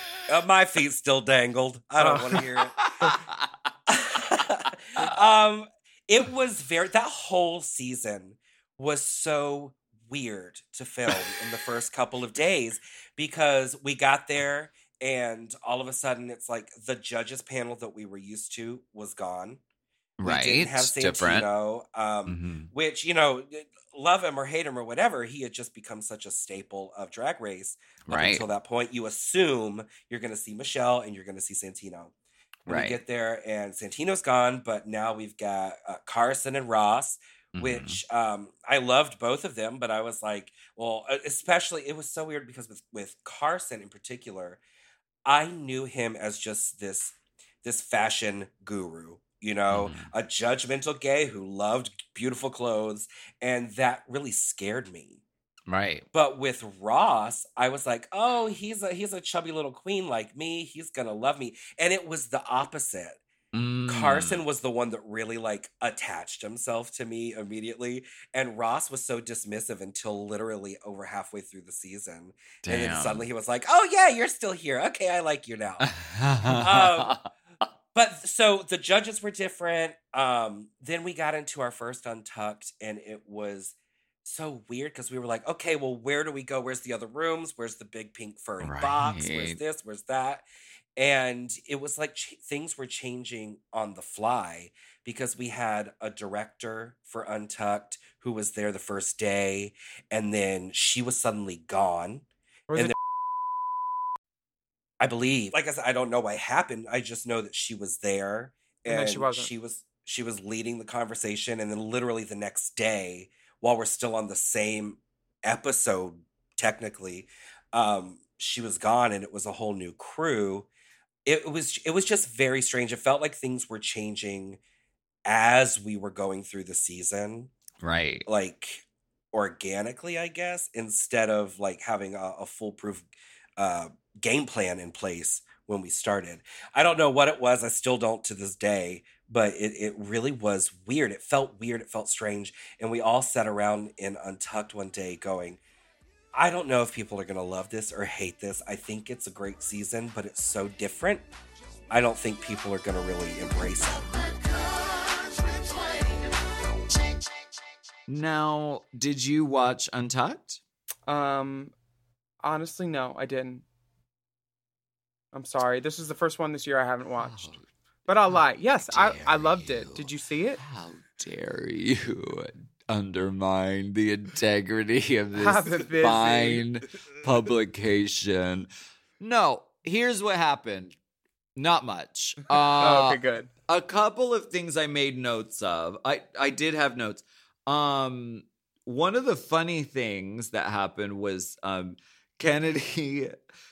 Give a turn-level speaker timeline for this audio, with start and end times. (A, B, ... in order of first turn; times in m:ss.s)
0:00.3-0:03.1 A
0:02.6-0:03.4 B
0:03.9-0:19.6 A
0:20.2-0:21.5 B
0:20.2-0:32.1 A
0:22.2-0:22.7 B
0:28.1-0:28.4 B
0:32.6-0:44.6 A
0:32.7-0:33.0 B
0:37.5-0:37.9 B
0:45.2-0:55.2 A
0:49.7-0:50.1 B
0:55.7-0:56.0 B
0:56.1-1:03.2 A
1:03.5-1:04.4 B
1:03.9-1:15.9 A
1:12.6-1:13.2 B
1:15.8-1:17.3 B
1:16.4-1:17.2 A
1:17.9-1:30.4 A
1:28.6-1:29.6 B
1:31.0-1:42.9 A
1:45.0-2:00.7 A
1:48.9-1:49.5 C
2:01.2-2:04.6 A
2:05.2-2:07.5 A
2:07.8-2:08.2 B
2:08.3-2:25.6 A
2:26.3-2:31.3 A
2:31.9-2:34.3 A
2:38.1-2:40.6 B
2:41.0-2:41.7 C
2:42.4-2:43.6 C
2:45.3-2:47.5 C
2:47.2-2:47.6 B
2:48.1-2:50.6 C
2:48.9-2:58.7 B
2:55.3-2:56.6 C
2:59.2-3:00.9 B
3:01.6-3:13.3 B
3:02.8-3:03.5 C